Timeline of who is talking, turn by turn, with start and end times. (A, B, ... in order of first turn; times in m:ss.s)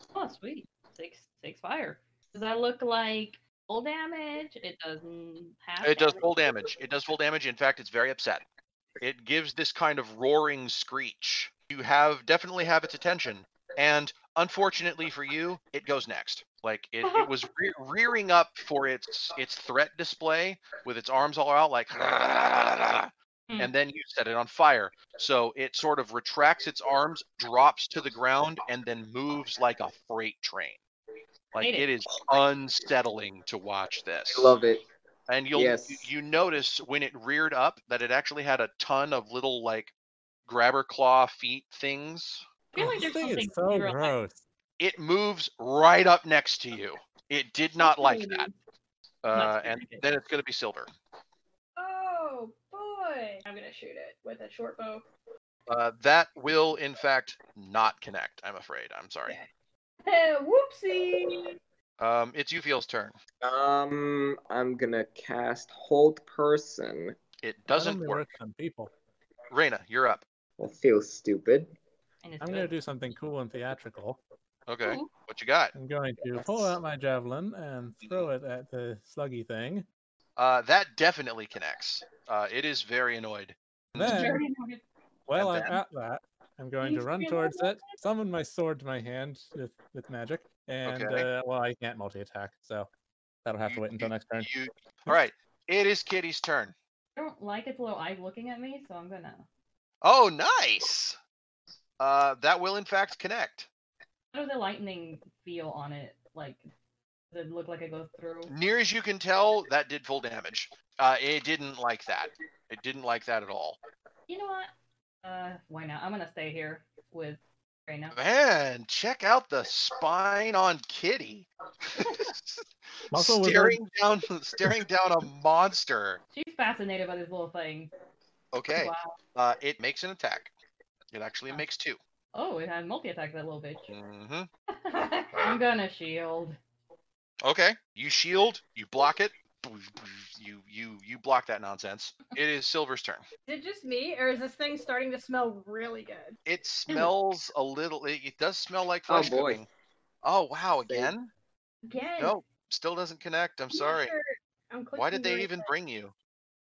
0:00.2-0:06.2 A
0:05.8-0:08.4 B
0:09.0-0:30.8 B
0:31.5-0:34.6 B
0:31.6-0:31.9 A
0:34.3-0:34.8 C
0:35.3-0:39.9 B
0:35.5-0:36.1 C
0:40.5-0:42.4 B
0:42.7-0:44.2 A
0:42.8-0:44.4 D
0:44.8-0:48.5 B
0:47.8-0:48.4 A
0:49.2-0:50.9 B
0:49.3-0:50.0 A
0:51.8-0:55.0 E
0:55.7-0:59.4 B
1:00.0-1:01.6 E
1:02.0-1:03.2 B
1:03.4-1:07.2 C
1:07.4-1:08.3 B
1:07.7-1:08.9 D
1:09.5-1:10.2 B
1:10.6-1:11.7 C
1:12.2-1:12.7 A
1:12.4-1:14.2 D
1:14.7-1:15.8 B
1:14.8-1:15.1 A
1:15.8-1:19.9 D
1:16.2-1:16.8 C
1:18.0-1:18.3 B
1:20.4-1:24.3 B
1:24.0-1:24.4 D
1:24.0-1:24.8 A
1:25.3-1:32.9 D
1:25.4-1:25.8 B
1:26.8-1:28.0 E
1:30.9-1:31.3 B
1:33.4-1:34.5 D
1:33.7-1:36.7 B
1:37.2-1:39.5 A
1:40.0-1:41.2 B
1:42.0-1:43.7 B
1:44.3-1:46.6 A
1:47.3-1:48.5 A
1:48.5-1:53.8 B
1:54.3-1:54.7 A
1:55.2-1:58.2 A
1:58.1-2:06.2 B
2:03.1-2:03.8 D
2:06.3-2:07.9 A
2:08.5-2:10.5 B
2:08.7-2:09.2 A
2:11.1-2:12.0 B
2:12.3-2:13.9 A
2:13.9-2:14.5 B
2:14.8-2:16.6 A
2:17.4-2:23.2 B
2:23.5-2:26.4 E
2:26.5-2:29.7 B
2:29.1-2:29.6 C
2:30.2-2:31.3 B
2:30.8-2:31.1 C
2:31.9-2:32.4 E
2:32.2-2:34.1 B
2:33.7-2:35.7 E
2:35.0-2:36.1 B